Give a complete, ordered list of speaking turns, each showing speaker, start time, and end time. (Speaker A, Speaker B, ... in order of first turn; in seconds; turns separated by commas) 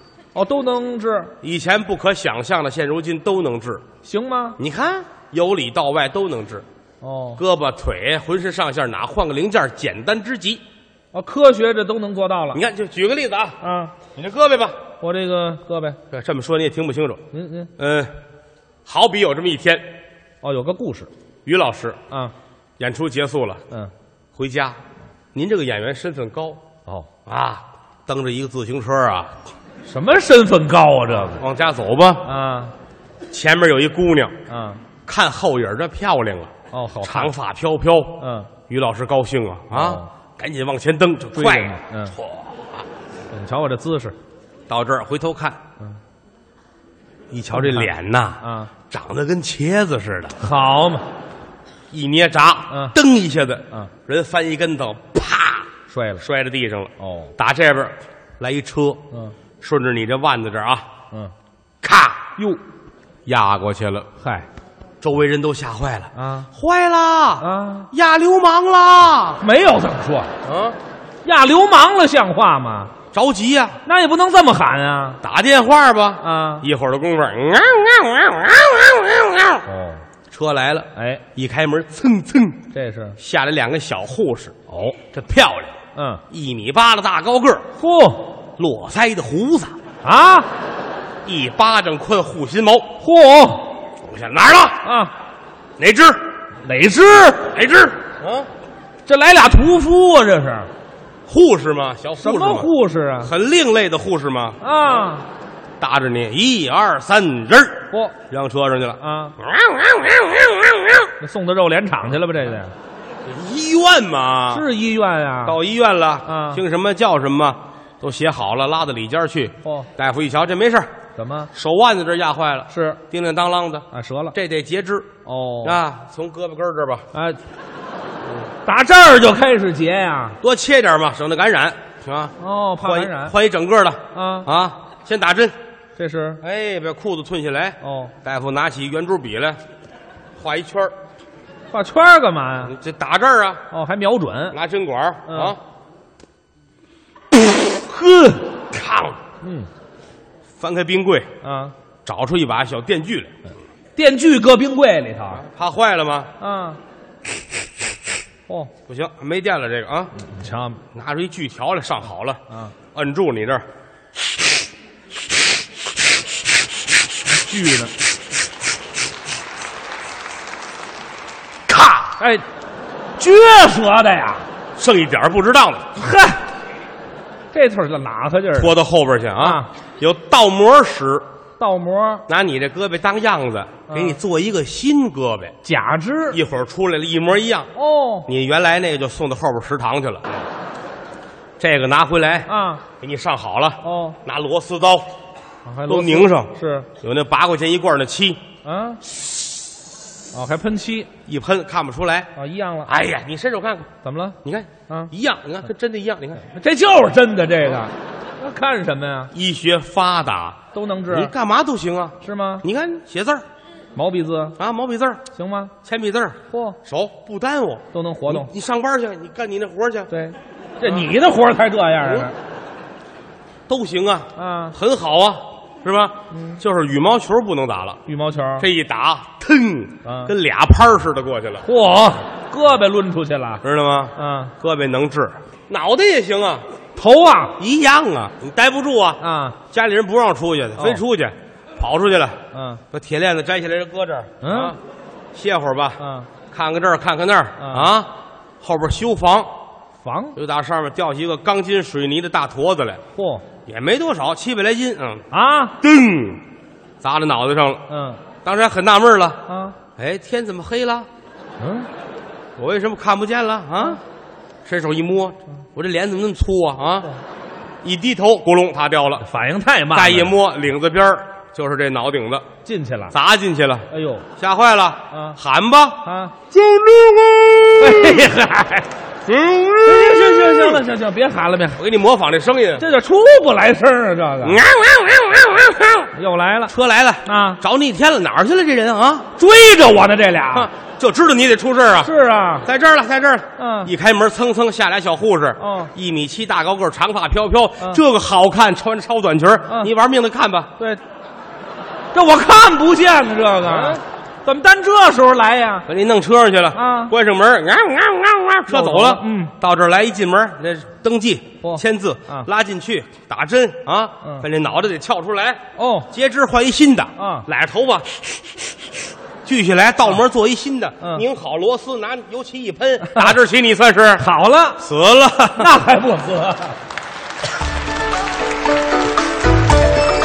Speaker A: 0.3-1.3, Speaker B: 1.4-3.8, Speaker A: 4.0-4.6, Speaker B: 4.6-6.7, Speaker A: 7.0-7.4, Speaker B: 7.4-10.6, Speaker A: 11.1-12.6, Speaker B: 12.5-13.6, Speaker A: 13.6-13.9, Speaker B: 14.1-14.8, Speaker A: 15.0-16.0, Speaker B: 16.1-17.2, Speaker A: 17.3-17.7, Speaker B: 17.8-18.1, Speaker B: 18.9-19.9, Speaker A: 20.4-21.1, Speaker B: 21.4-22.0, Speaker B: 22.8-23.6, Speaker B: 24.4-24.8, Speaker B: 25.3-26.6, Speaker B: 27.3-29.3, Speaker A: 29.9-31.4, Speaker B: 31.4-32.3, Speaker A: 32.2-32.7, Speaker B: 33.3-34.4, Speaker A: 34.5-34.8, Speaker B: 35.0-36.5, Speaker A: 36.7-37.3, Speaker B: 37.0-41.8, Speaker A: 38.2-38.5, Speaker A: 39.7-40.1, Speaker A: 41.3-42.2, Speaker A: 43.3-44.1, Speaker B: 44.7-45.6, Speaker B: 47.3-50.4, Speaker A: 47.5-47.9, Speaker A: 48.4-48.7, Speaker A: 50.4-51.1, Speaker B: 51.9-55.7, Speaker A: 52.7-53.0, Speaker A: 55.9-56.2, Speaker B: 56.2-59.0, Speaker A: 57.0-57.3, Speaker B: 59.6-60.9, Speaker B: 61.8-62.2, Speaker A: 62.4-62.6, Speaker B: 63.3-64.1, Speaker A: 64.2-64.5, Speaker B: 65.0-69.4, Speaker A: 66.2-66.5, Speaker A: 67.4-67.9, Speaker A: 69.4-70.3, Speaker B: 70.4-70.8, Speaker A: 71.2-72.9, Speaker B: 73.1-73.8, Speaker A: 73.8-75.2, Speaker B: 75.2-79.7, Speaker A: 76.2-76.7, Speaker A: 79.7-80.0, Speaker B: 80.3-82.7, Speaker A: 81.0-81.2, Speaker A: 82.7-83.2, Speaker B: 83.2-85.8, Speaker A: 84.7-85.0, Speaker A: 86.0-86.2, Speaker B: 86.3-87.7, Speaker A: 87.8-88.3, Speaker B: 88.6-89.8, Speaker A: 90.0-90.5, Speaker B: 91.2-93.0, Speaker A: 93.0-93.8, Speaker B: 94.0-94.8, Speaker A: 94.8-95.1, Speaker B: 95.8-96.2, Speaker A: 96.6-97.5, Speaker B: 97.5-98.5, Speaker A: 99.0-100.7, Speaker B: 101.3-104.6, Speaker A: 102.2-103.3, Speaker A: 104.6-105.3, Speaker B: 105.8-111.1, Speaker A: 107.9-108.2, Speaker A: 109.0-109.4, Speaker A: 111.2-112.7, Speaker B: 113.2-114.7, Speaker A: 114.5-115.6, Speaker B: 115.5-120.9, Speaker A: 116.3-116.6, Speaker A: 119.6-119.9, Speaker A: 121.2-121.5, Speaker B: 121.5-125.1, Speaker A: 122.7-123.0, Speaker A: 123.9-124.4, Speaker A: 125.2-125.8, Speaker B: 125.6-127.1, Speaker A: 127.1-127.4, Speaker A: 128.6-130.4, Speaker B: 130.4-135.6, Speaker A: 132.4-133.3, Speaker A: 134.1-134.5, Speaker A: 136.0-136.4, Speaker B: 136.4-139.6, Speaker A: 137.8-138.1, Speaker B: 140.4-140.9, Speaker A: 141.7-142.7, Speaker B: 142.6-143.6, Speaker A: 143.7-144.6, Speaker B: 144.5-145.6, Speaker A: 145.3-145.6, Speaker A: 147.9-148.4, Speaker B: 148.7-149.2, Speaker A: 149.4-149.7, Speaker B: 150.6-151.3, Speaker A: 151.4-151.8, Speaker B: 152.1-153.3, Speaker A: 153.9-155.4, Speaker B: 155.3-156.3, Speaker A: 156.4-156.8, Speaker A: 158.5-158.7, Speaker B: 158.9-160.1, Speaker A: 160.2-160.8, Speaker B: 160.9-162.4, Speaker A: 162.5-162.8, Speaker B: 162.9-163.7, Speaker A: 167.3-167.9, Speaker A: 172.0-172.4, Speaker A: 173.2-174.4, Speaker B: 174.8-175.9, Speaker A: 176.0-176.4, Speaker A: 177.5-178.7, Speaker B: 178.6-181.3, Speaker A: 179.4-179.7, Speaker A: 181.6-182.2, Speaker B: 182.3-185.6, Speaker A: 183.9-184.2, Speaker A: 185.6-186.4, Speaker B: 186.3-187.7, Speaker A: 187.8-188.3, Speaker B: 188.3-190.3, Speaker B: 191.6-192.5, Speaker A: 192.5-192.8, Speaker B: 193.0-195.1, Speaker A: 193.8-194.2, Speaker A: 195.7-196.9, Speaker B: 195.9-198.4, Speaker A: 198.6-199.0, Speaker A: 200.3-201.1, Speaker B: 201.3-202.3, Speaker A: 202.3-202.9, Speaker B: 202.9-203.9, Speaker A: 204.0-204.4, Speaker B: 204.4-206.4, Speaker A: 206.5-209.3, Speaker B: 209.3-213.4, Speaker A: 210.7-211.3, Speaker A: 212.2-212.7, Speaker A: 213.9-214.6, Speaker B: 214.6-215.2, Speaker A: 215.3-215.7, Speaker B: 215.8-220.1, Speaker A: 216.5-216.8, Speaker A: 217.9-218.5, Speaker A: 220.1-222.4, Speaker B: 222.0-222.3, Speaker B: 223.7-228.0, Speaker A: 224.3-224.8, Speaker A: 226.3-226.6, Speaker A: 228.1-228.7, Speaker B: 228.6-231.7, Speaker A: 230.0-230.3, Speaker A: 231.6-233.6, Speaker B: 233.6-236.7, Speaker A: 234.2-234.5, Speaker A: 237.0-237.6, Speaker B: 237.6-242.4, Speaker A: 239.2-239.6, Speaker A: 242.5-242.8, Speaker B: 242.9-244.8, Speaker A: 244.4-244.8, Speaker B: 245.3-246.0, Speaker A: 246.0-246.3, Speaker B: 246.5-249.5, Speaker A: 247.6-247.9, Speaker A: 250.0-250.4, Speaker B: 250.3-253.0, Speaker A: 253.2-253.4, Speaker B: 253.7-255.2, Speaker A: 255.3-255.8, Speaker B: 255.8-256.4, Speaker B: 257.0-257.8, Speaker A: 257.9-258.2, Speaker B: 258.4-259.4, Speaker A: 259.5-259.8, Speaker B: 260.0-261.1, Speaker A: 261.6-261.9, Speaker B: 262.6-264.0, Speaker B: 264.6-267.1, Speaker B: 267.8-269.2, Speaker A: 269.2-270.3, Speaker B: 269.9-272.5, Speaker A: 272.6-273.1, Speaker B: 273.1-278.3, Speaker A: 273.9-274.3, Speaker A: 275.1-275.4, Speaker A: 276.0-276.3, Speaker A: 277.8-278.9, Speaker B: 279.3-280.8, Speaker A: 279.8-281.8, Speaker B: 281.8-282.9, Speaker A: 282.8-284.6, Speaker B: 284.4-286.1, Speaker A: 286.1-286.7, Speaker B: 286.7-289.3, Speaker A: 287.2-287.6, Speaker A: 289.4-290.7, Speaker B: 290.5-300.7, Speaker A: 292.0-292.7, Speaker A: 293.6-293.9, Speaker A: 295.6-295.9, Speaker A: 302.1-305.9, Speaker B: 303.6-304.0, Speaker B: 305.9-318.1, Speaker A: 306.7-307.1, Speaker A: 308.7-309.5, Speaker A: 311.6-312.5, Speaker A: 315.8-316.1, Speaker A: 317.2-317.5, Speaker B: 319.4-324.3, Speaker A: 324.2-324.8, Speaker B: 324.8-325.8, Speaker A: 325.6-326.8